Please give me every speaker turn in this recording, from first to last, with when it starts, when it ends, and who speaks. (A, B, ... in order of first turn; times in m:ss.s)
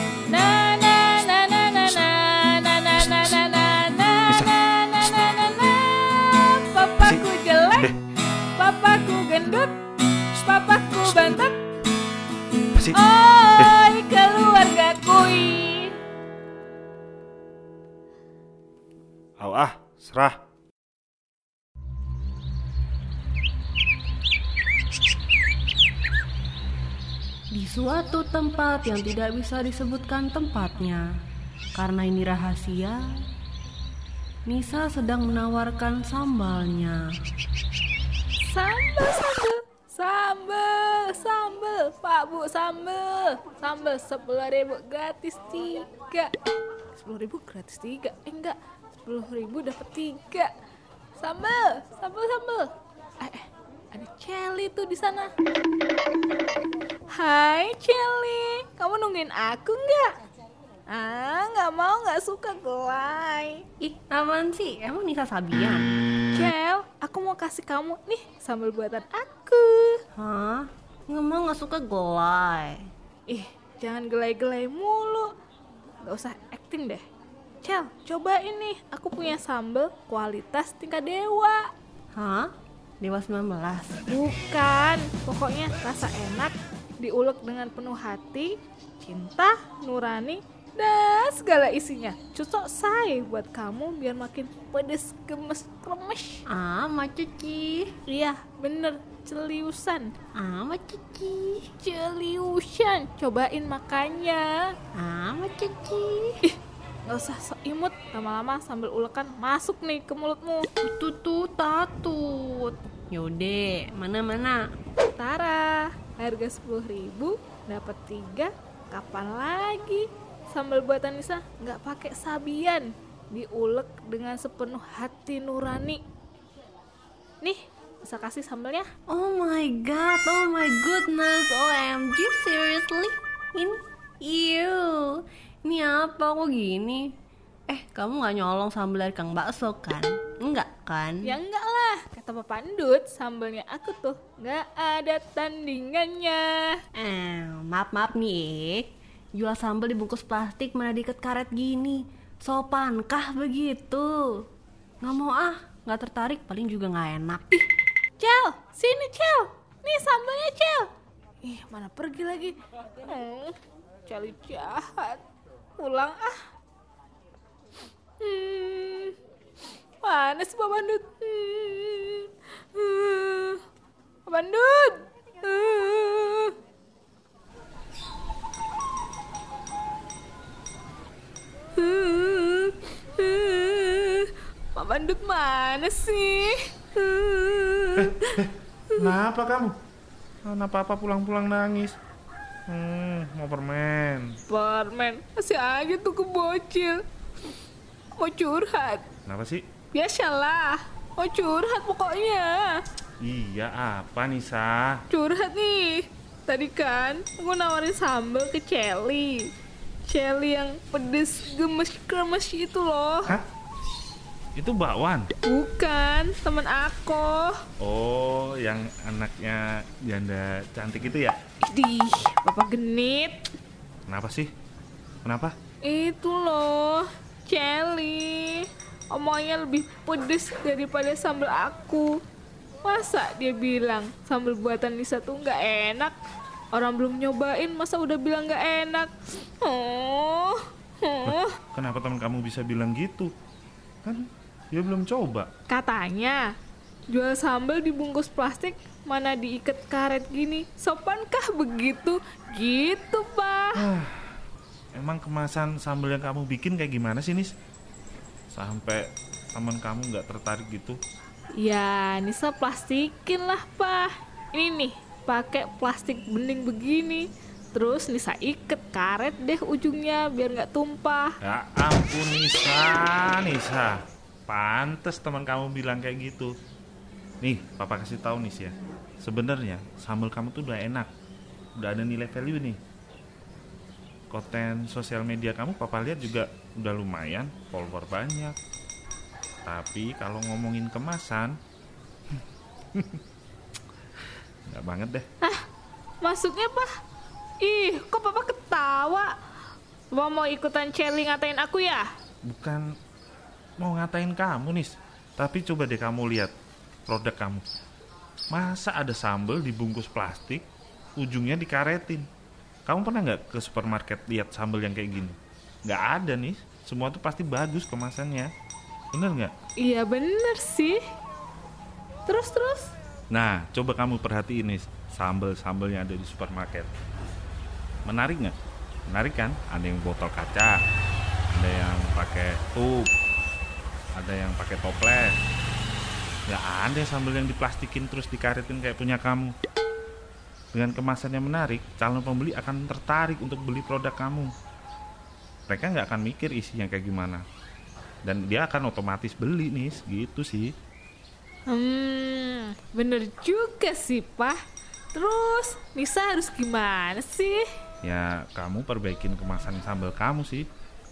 0:00.3-0:08.0 A
0:08.6-0:09.8 A
0:10.4-0:11.6 A
0:12.9-0:16.0 A
0:19.4-0:20.4 B
0:27.5-0:31.1 C
0:31.8-0:33.0 C
0:34.5-0:37.1 C
0:38.5-0:46.3 A
0:47.0-0:50.5 A
0:51.2-0:55.3 A
0:57.1-1:00.2 A
1:00.9-1:03.6 A
1:03.8-1:06.0 C
1:06.3-1:10.0 A
1:10.2-1:12.9 C
1:13.3-1:15.3 A
1:16.0-1:17.0 A
1:17.6-1:21.6 A
1:22.2-1:24.0 C
1:24.1-1:36.4 A
1:36.5-1:37.9 C
1:38.1-1:40.1 A
1:40.4-1:41.7 C
1:41.8-1:44.6 A
1:45.0-1:46.4 C
1:47.1-1:50.7 A
1:50.8-1:54.6 C
1:55.2-2:06.0 A
2:07.4-2:08.9 A
2:09.1-2:17.1 C
2:17.7-2:21.3 C
2:21.2-2:26.8 A
2:27.0-2:34.5 C
2:35.0-2:37.6 C
2:38.2-2:40.9 A
2:41.4-2:43.6 A
2:44.1-2:45.2 A
2:45.8-2:46.4 A
2:48.2-2:49.2 A
2:50.0-2:53.6 A
2:54.3-2:56.6 A
3:01.8-3:08.4 A
3:08.0-3:09.7 B
3:10.5-3:12.0 B
3:12.7-3:14.3 B
3:14.5-3:17.0 A
3:18.2-3:19.0 A
3:19.2-3:19.6 B
3:19.9-3:22.8 A
3:23.2-3:25.0 B
3:25.1-3:29.5 A
3:30.1-3:33.4 A
3:34.6-3:35.3 B
3:35.5-3:37.6 A
3:37.8-3:41.4 B
3:41.6-3:43.5 A
3:44.1-3:44.5 B
3:45.2-3:45.5 B
3:45.8-3:52.2 A
3:52.8-3:56.2 A
3:56.7-4:01.6 A
4:01.3-4:03.3 B
4:04.0-4:05.5 B
4:05.7-4:06.5 A
4:07.1-4:13.9 A
4:13.8-4:14.4 B
4:15.0-4:17.5 B
4:18.5-4:21.0 B
4:21.6-4:31.4 A
4:31.4-4:36.5 B
4:37.4-4:41.1 B
4:41.8-4:42.8 B
4:44.3-4:48.6 B
4:49.6-4:51.6 B
4:54.7-4:55.3 B
4:56.2-4:56.9 A
4:57.6-4:59.3 A
5:00.1-5:02.1 A
5:02.5-5:02.8 B
5:03.8-5:06.5 B
5:07.1-5:07.6 B
5:08.5-5:10.6 B
5:11.2-5:12.3 B
5:12.9-5:18.5 B
5:19.1-5:19.5 B
5:19.8-5:21.0 A
5:22.3-5:22.9 A
5:23.3-5:26.9 B
5:28.1-5:28.6 B
5:29.1-5:30.8 B
5:31.5-5:33.1 B
5:34.2-5:35.4 B
5:36.5-5:39.5 B
5:40.7-5:44.5 B
5:45.7-5:47.4 B
5:48.2-5:50.7 B
5:51.7-5:54.6 A
5:55.1-5:57.6 A
5:58.0-6:00.7 B